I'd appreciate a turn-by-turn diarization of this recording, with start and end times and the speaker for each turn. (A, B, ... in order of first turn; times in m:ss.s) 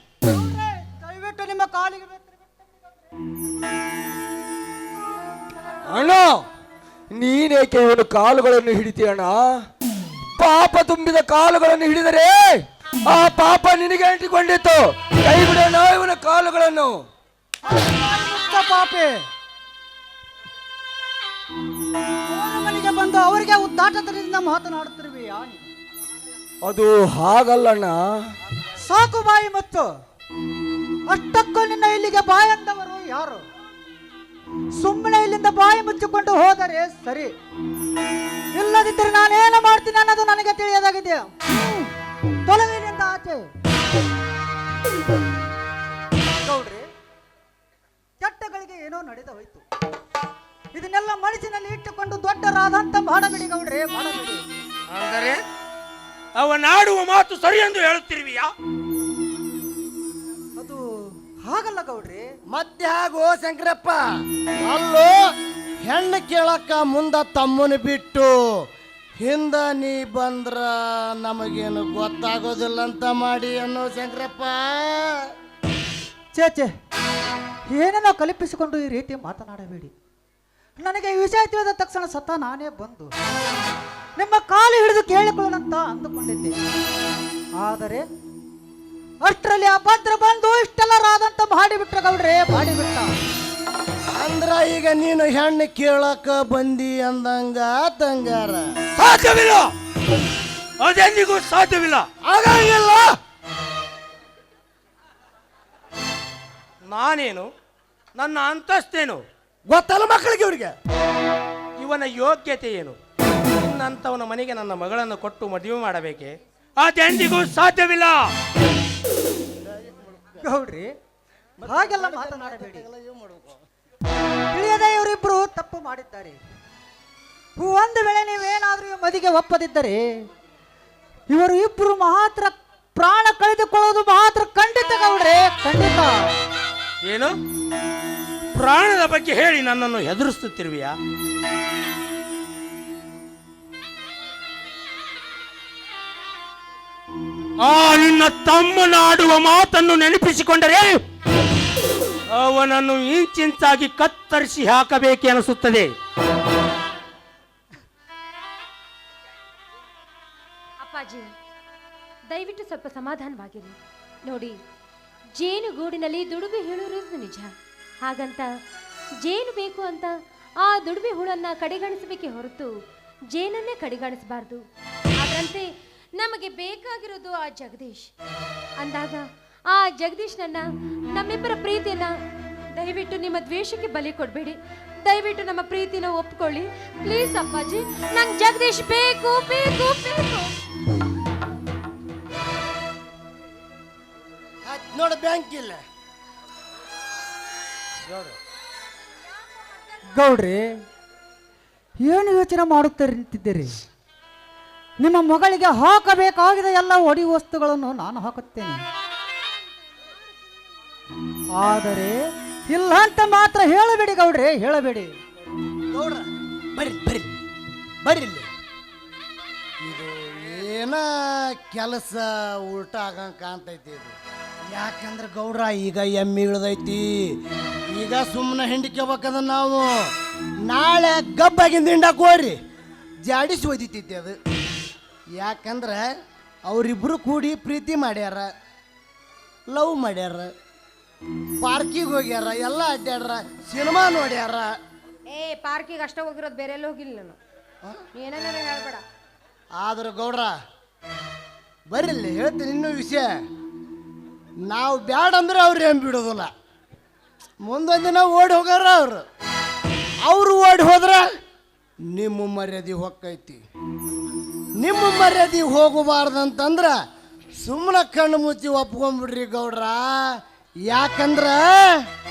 0:00.5-0:02.2 A
0:05.8-0:06.4 B
0:07.1-0:09.5 B
0:10.4-0:17.0 B
0:17.8-0:19.2 A
0:22.3-0:25.6 A
0:26.6-0:28.0 B
0:28.8-0:29.9 A
0:31.1-0:33.4 A
0:34.8-0:37.3 A
0:38.5-0:41.9 A
0:42.4-0:43.5 A
0:46.4-0:46.8 A
0:48.2-0:49.6 A
0:50.7-0:54.4 A
0:54.9-0:55.4 C
0:56.4-0:58.5 C
1:01.4-1:02.3 A
1:02.5-1:04.0 D
1:04.6-1:05.2 D
1:05.8-1:08.4 D
1:09.2-1:15.2 D
1:16.3-1:16.7 A
1:17.7-1:19.9 A
1:20.8-1:23.1 A
1:24.2-1:26.5 A
1:27.6-1:28.0 A
1:29.2-1:33.1 A
1:34.2-1:38.6 D
1:39.0-1:39.7 C
1:40.8-1:42.0 C
1:42.2-1:43.1 D
1:46.9-1:47.5 C
1:48.2-1:49.2 C
1:49.7-1:50.7 D
1:51.8-1:53.0 C
1:53.6-1:58.3 C
1:59.6-2:00.4 D
2:00.4-2:00.9 A
2:01.6-2:03.6 D
2:01.7-2:02.8 A
2:04.5-2:06.4 A
2:07.6-2:10.0 A
2:11.3-2:16.3 A
2:17.0-2:17.3 C
2:18.5-2:20.9 C
2:27.6-2:31.0 C
2:32.3-2:35.9 C
2:40.8-2:41.3 E
2:42.3-2:44.6 E
2:45.4-2:47.5 E
2:48.0-2:48.5 E
2:49.2-2:52.7 E
2:53.3-2:54.6 E
2:55.2-2:58.1 E
2:58.8-3:02.1 E
3:02.7-3:10.5 E
3:14.6-3:15.8 D
3:18.0-3:18.4 C
3:19.4-3:20.0 E
3:20.1-3:20.6 A
3:22.0-3:23.7 A
3:25.0-3:28.8 A
3:31.6-3:35.1 A
3:35.9-3:37.3 D
3:38.0-3:38.5 D
3:39.8-3:44.1 D
3:44.7-3:47.3 D
3:47.9-3:50.1 D
3:50.7-3:52.6 D
3:53.2-3:54.3 D
3:55.4-3:56.1 D
3:56.7-3:58.5 D
3:59.7-4:00.5 D
4:01.6-4:04.7 D
4:05.3-4:07.4 E
4:08.1-4:09.0 E
4:09.8-4:10.5 D
4:11.9-4:13.3 D
4:14.7-4:16.5 D
4:17.6-4:19.2 D
4:20.2-4:21.2 D
4:22.1-4:23.6 D
4:24.8-4:26.9 D
4:27.6-4:30.3 D
4:30.9-4:32.0 D